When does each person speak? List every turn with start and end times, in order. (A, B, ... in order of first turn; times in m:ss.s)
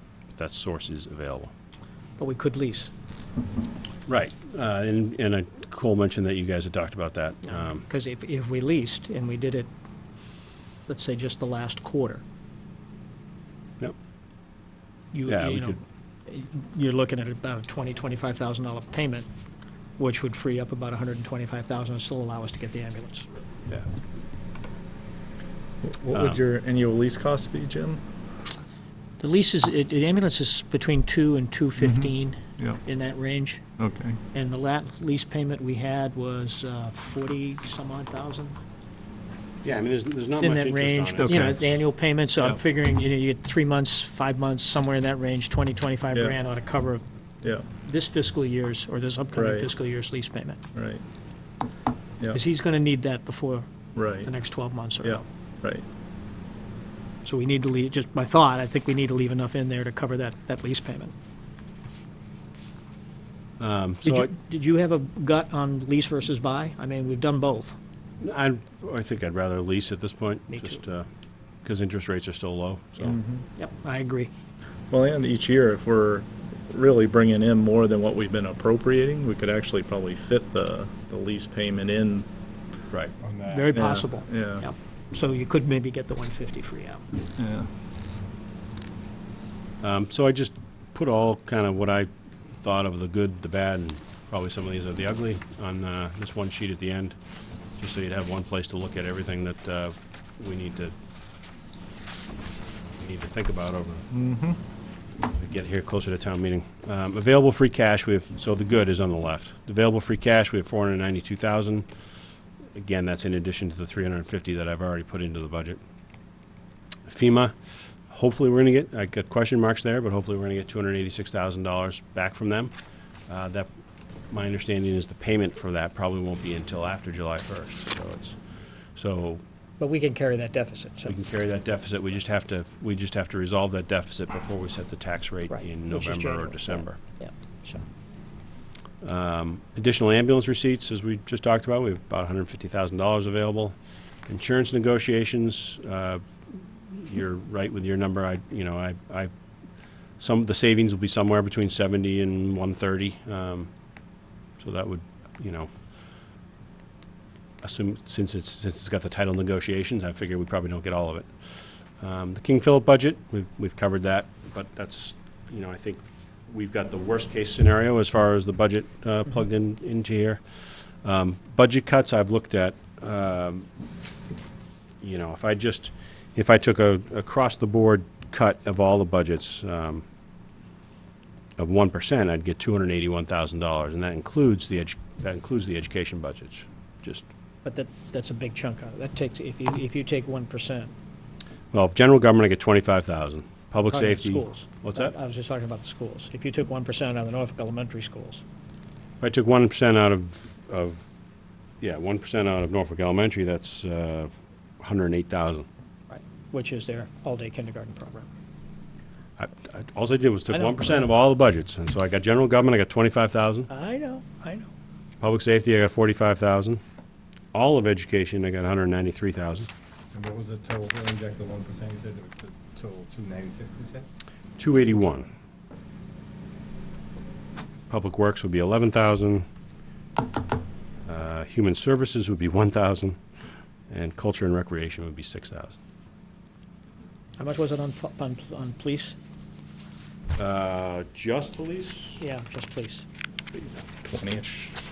0:00.3-0:01.5 A
0:02.2-0:02.9 B
0:04.1-0:07.8 A
0:07.5-0:09.7 B
0:10.9-0:12.2 B
0:15.1-0:19.3 B
0:15.2-0:15.8 A
0:20.0-0:23.3 B
0:25.8-0:28.0 C
0:26.1-0:26.4 A
0:29.2-0:33.6 B
0:31.8-0:32.8 C
0:33.8-0:34.2 C
0:34.3-0:38.6 B
0:39.6-0:41.5 A
0:40.4-0:47.0 B
0:41.2-0:41.6 C
0:46.1-0:46.4 C
0:47.7-0:50.6 B
0:49.3-0:49.7 C
0:50.7-0:51.0 C
0:52.3-0:55.3 B
0:53.9-0:54.3 C
0:55.0-0:55.8 C
0:57.2-1:01.1 B
1:03.6-1:04.3 A
1:04.0-1:07.8 B
1:08.2-1:11.1 A
1:10.5-1:10.8 B
1:11.6-1:13.2 A
1:13.2-1:13.4 C
1:13.6-1:14.3 B
1:14.9-1:22.3 C
1:23.2-1:23.8 D
1:23.4-1:27.1 B
1:23.7-1:24.6 C
1:27.4-1:27.7 C
1:29.8-1:37.2 A
1:37.8-1:40.9 A
1:43.0-1:44.1 A
1:44.1-1:44.6 C
1:45.3-1:51.8 A
1:52.7-1:55.8 A
1:57.0-1:57.5 A
1:58.1-2:02.7 A
2:03.3-2:03.7 A
2:04.3-2:08.4 A
2:08.9-2:09.4 A
2:09.8-2:11.2 B
2:11.0-2:17.0 A
2:15.5-2:17.8 B
2:19.0-2:23.8 A
2:24.3-2:29.3 A
2:30.2-2:33.7 A
2:34.6-2:35.7 A
2:37.6-2:41.3 A
2:42.0-2:50.4 A
2:51.0-2:53.7 A
2:55.0-3:00.0 A
3:01.6-3:07.3 A
3:07.6-3:10.9 B
3:11.7-3:15.1 A
3:13.9-3:18.4 B
3:19.2-3:21.0 A
3:21.8-3:25.6 A
3:26.1-3:28.3 B
3:29.4-3:33.7 A
3:30.5-3:31.0 B
3:33.7-3:34.7 B
3:35.2-3:36.8 A
3:37.5-3:39.7 A
3:40.1-3:44.0 D
3:44.6-3:45.3 A
3:47.9-3:49.4 A
3:51.0-3:53.2 A
3:53.9-3:55.8 A
3:57.4-3:59.1 B
4:00.4-4:02.2 A
4:02.2-4:03.0 B
4:03.5-4:03.8 A
4:04.0-4:04.8 C